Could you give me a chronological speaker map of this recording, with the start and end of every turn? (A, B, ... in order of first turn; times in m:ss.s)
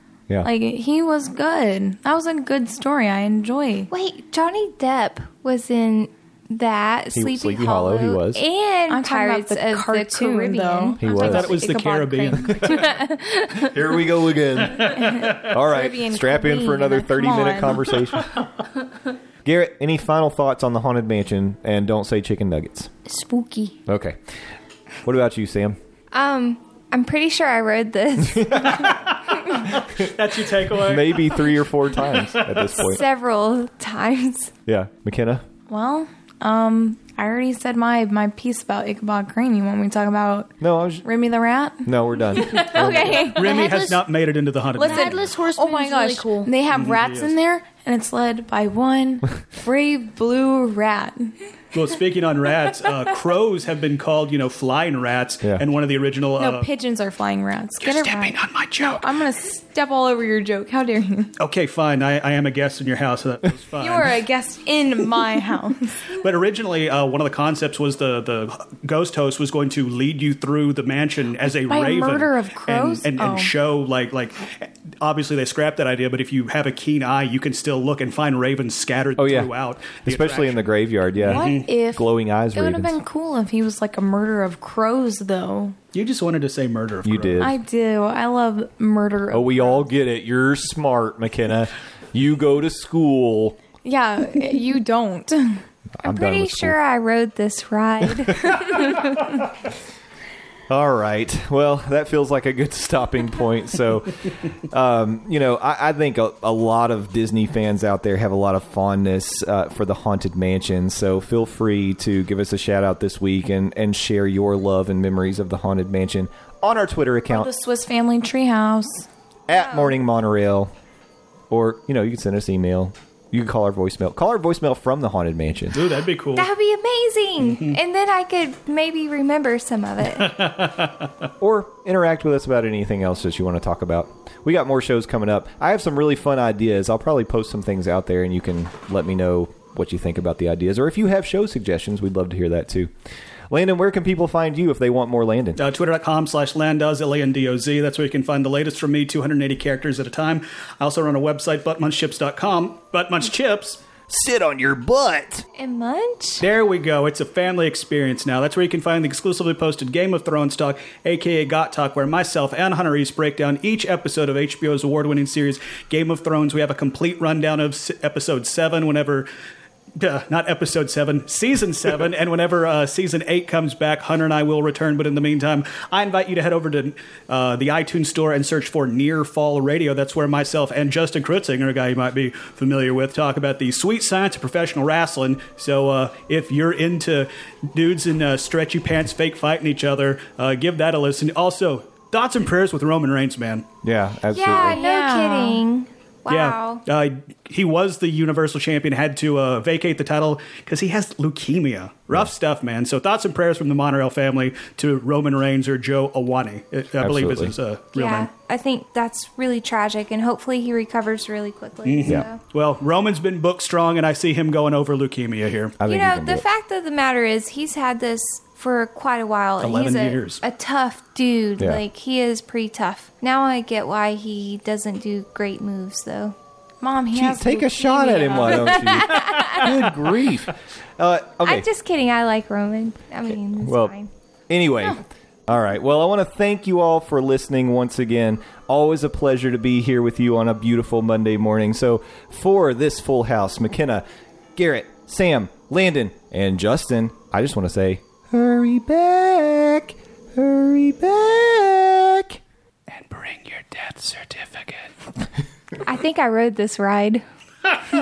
0:00.4-0:03.9 A
0:03.9-0:11.0 B
0:07.1-0:08.4 C
0:08.9-0:13.7 A
0:11.0-0:11.5 C
0:11.1-0:13.0 D
0:13.7-0:18.3 C
0:14.7-0:15.5 D
0:14.9-0:17.8 A
0:19.4-0:22.9 C
0:23.1-0:23.8 E
0:23.9-0:24.2 C
0:25.0-0:25.8 C
0:26.1-0:29.6 B
0:28.8-0:32.8 D
0:30.7-0:33.0 C
0:32.8-0:34.5 B
0:34.7-0:35.4 C
0:35.7-0:43.5 A
0:40.6-0:41.0 C
0:41.8-0:43.3 C
0:43.4-0:45.2 D
0:43.4-0:44.0 E
0:44.8-0:51.3 A
0:44.8-0:46.5 E
0:46.7-0:47.3 D
0:51.7-0:56.7 D
0:56.4-1:01.3 A
0:57.8-0:59.1 D
1:01.4-1:04.2 D
1:03.8-1:06.0 A
1:06.1-1:20.7 D
1:11.7-1:13.5 A
1:19.2-1:19.5 C
1:20.0-1:23.0 C
1:21.2-1:21.7 D
1:21.3-1:25.8 A
1:25.9-1:27.5 D
1:27.0-1:27.6 C
1:27.4-1:29.8 A
1:29.3-1:33.6 C
1:33.8-1:35.6 A
1:36.0-1:36.8 C
1:36.0-1:39.2 B
1:40.7-1:57.5 C
1:57.3-1:59.1 A
1:59.5-2:00.7 C
1:59.5-2:00.0 B
2:01.5-2:05.8 C
2:05.7-2:06.5 D
2:06.4-2:10.5 B
2:07.4-2:07.8 D
2:10.2-2:11.1 D
2:11.4-2:22.9 C
2:23.5-2:25.6 C
2:25.6-2:33.8 D
2:34.1-2:35.5 C
2:35.6-2:36.4 B
2:36.4-2:49.3 D
2:50.0-3:13.7 D
3:13.8-3:14.8 C
3:14.3-3:16.8 B
3:14.7-3:15.6 A
3:16.3-3:28.3 D
3:27.0-3:27.6 C
3:27.9-3:32.4 B
3:31.8-3:35.8 D
3:35.8-3:36.4 C
3:35.8-3:46.4 B
3:39.6-3:40.4 D
3:46.8-3:49.4 A
3:47.1-3:51.7 C
3:48.3-3:49.6 B
3:51.4-3:54.1 B
3:53.6-3:53.9 C
3:54.5-4:04.0 C
4:04.6-4:12.4 C
4:12.9-4:14.9 D
4:15.8-4:17.2 B